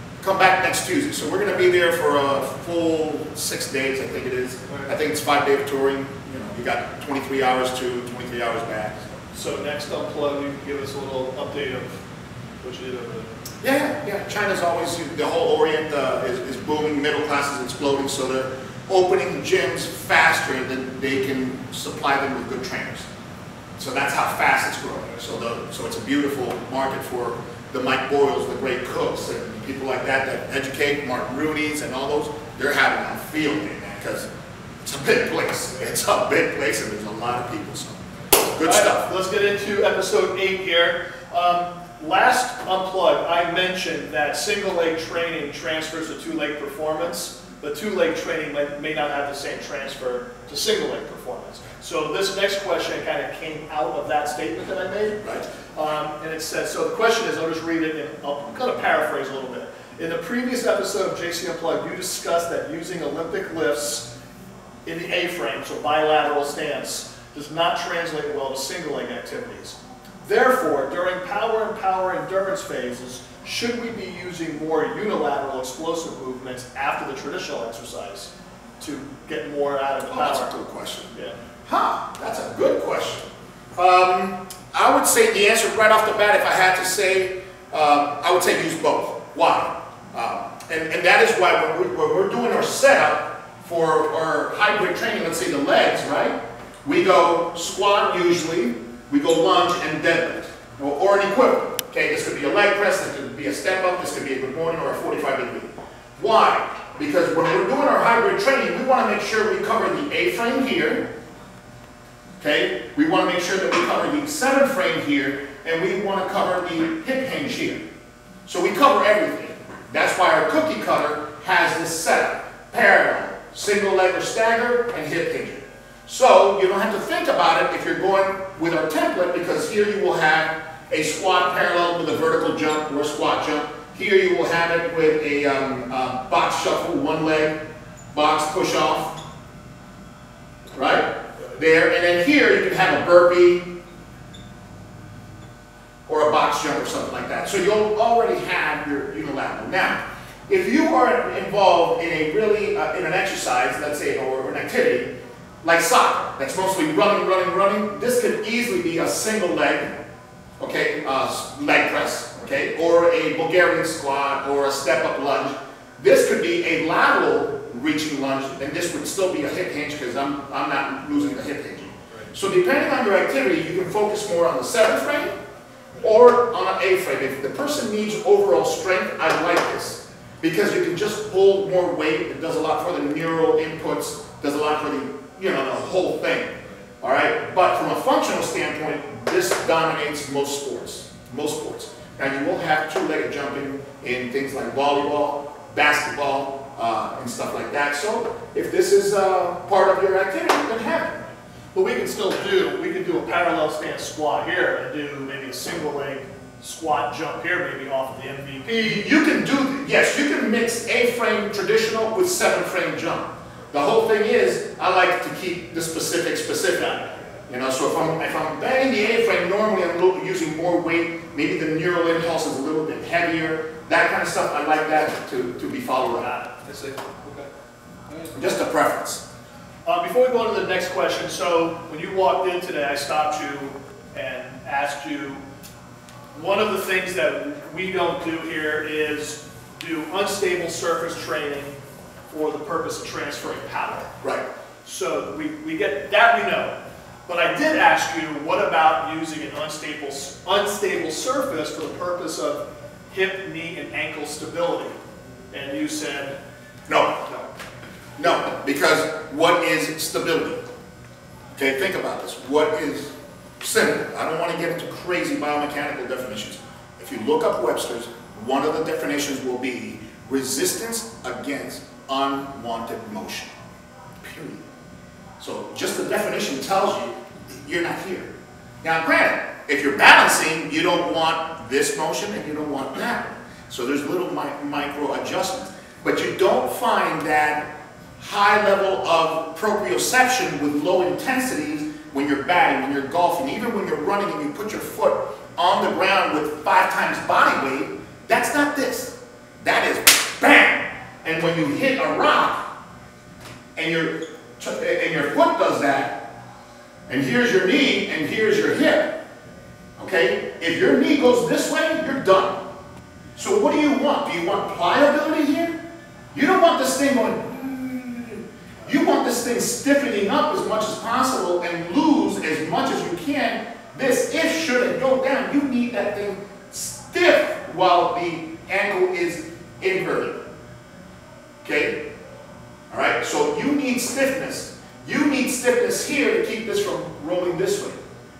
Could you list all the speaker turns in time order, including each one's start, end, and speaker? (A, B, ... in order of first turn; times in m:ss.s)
0:00.2-0:09.0 A
0:09.3-0:12.0 B
0:12.6-0:13.3 B
0:13.6-0:23.1 A
0:23.8-0:34.3 A
0:34.8-0:39.1 A
0:38.6-1:04.1 B
1:04.8-1:20.5 B
1:20.1-1:21.1 A
1:21.6-1:51.1 A
1:52.4-1:57.8 A
1:58.4-2:17.6 A
2:18.1-2:19.2 A
2:20.7-2:23.7 A
2:26.1-2:40.0 A
2:40.6-2:55.4 A
2:56.0-3:21.2 A
3:21.7-3:29.0 B
3:28.8-3:36.9 A
3:36.7-3:37.2 B
3:37.5-3:46.3 A
3:46.0-3:47.5 B
3:48.3-3:49.2 A
3:49.8-3:55.4 B
3:56.3-4:01.8 B
4:02.3-4:04.1 B
4:04.8-4:06.8 B
4:07.3-4:14.9 B
4:15.5-4:16.4 B
4:16.9-4:17.2 A
4:18.2-4:20.6 A
4:21.6-4:33.5 A
4:34.2-4:34.6 A
4:35.4-4:38.3 A
4:38.8-5:02.7 A
5:03.8-5:06.2 A
5:07.1-5:09.2 A
5:10.0-5:12.6 A
5:13.4-5:15.8 A
5:16.3-5:30.5 A
5:31.6-5:32.0 A
5:32.9-5:38.0 A